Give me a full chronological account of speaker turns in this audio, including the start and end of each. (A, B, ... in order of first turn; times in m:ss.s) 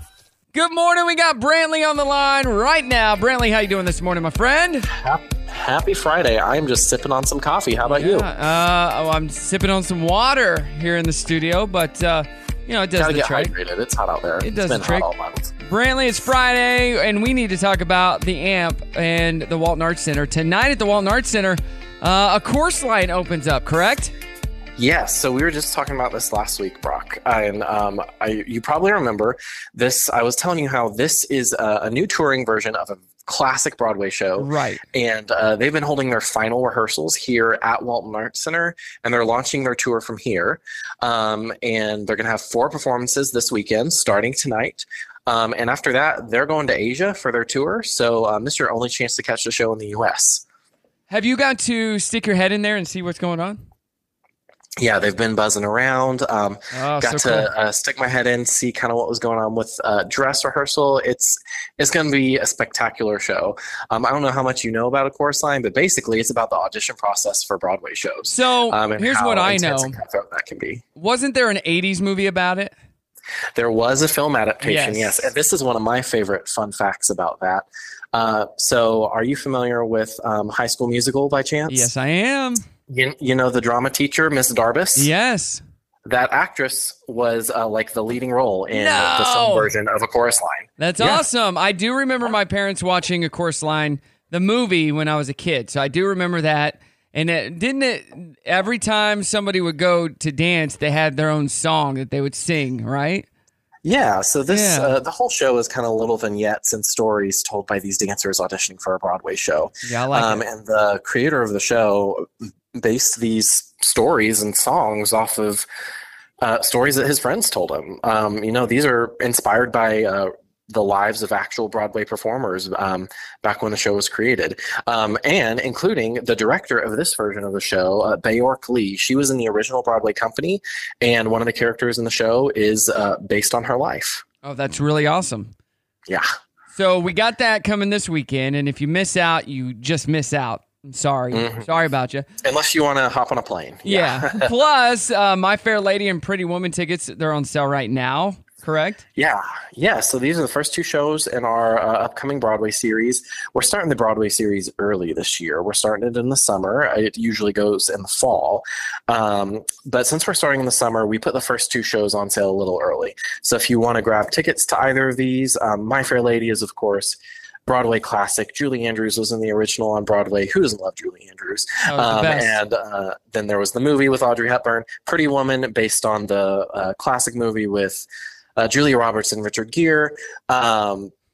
0:00.5-0:04.9 A
0:04.9-0:08.3 B
0:07.8-0:13.5 A
0:13.0-0:15.5 B
0:14.4-0:15.1 A
0:15.6-0:24.1 A
0:24.8-0:50.4 B
0:34.4-0:34.8 A
0:51.1-0:53.6 A
0:54.8-1:10.8 B
0:56.7-0:57.5 A
1:08.3-1:10.0 A
1:10.9-1:12.7 A
1:13.6-1:21.9 B
1:14.6-1:15.3 A
1:21.7-1:22.6 A
1:22.9-1:25.1 B
1:25.0-1:25.6 A
1:26.1-1:31.2 B
1:28.7-1:29.7 A
1:30.8-1:43.2 A
1:43.8-1:55.6 B
1:44.5-1:44.9 A
1:49.8-1:50.4 A
1:56.4-2:14.2 B
2:14.4-2:15.5 A
2:16.7-2:22.3 A
2:21.3-2:21.6 B
2:22.4-2:24.5 B
2:23.8-2:29.0 A
2:29.2-2:58.0 B
2:51.8-2:52.6 A
2:58.6-3:01.1 B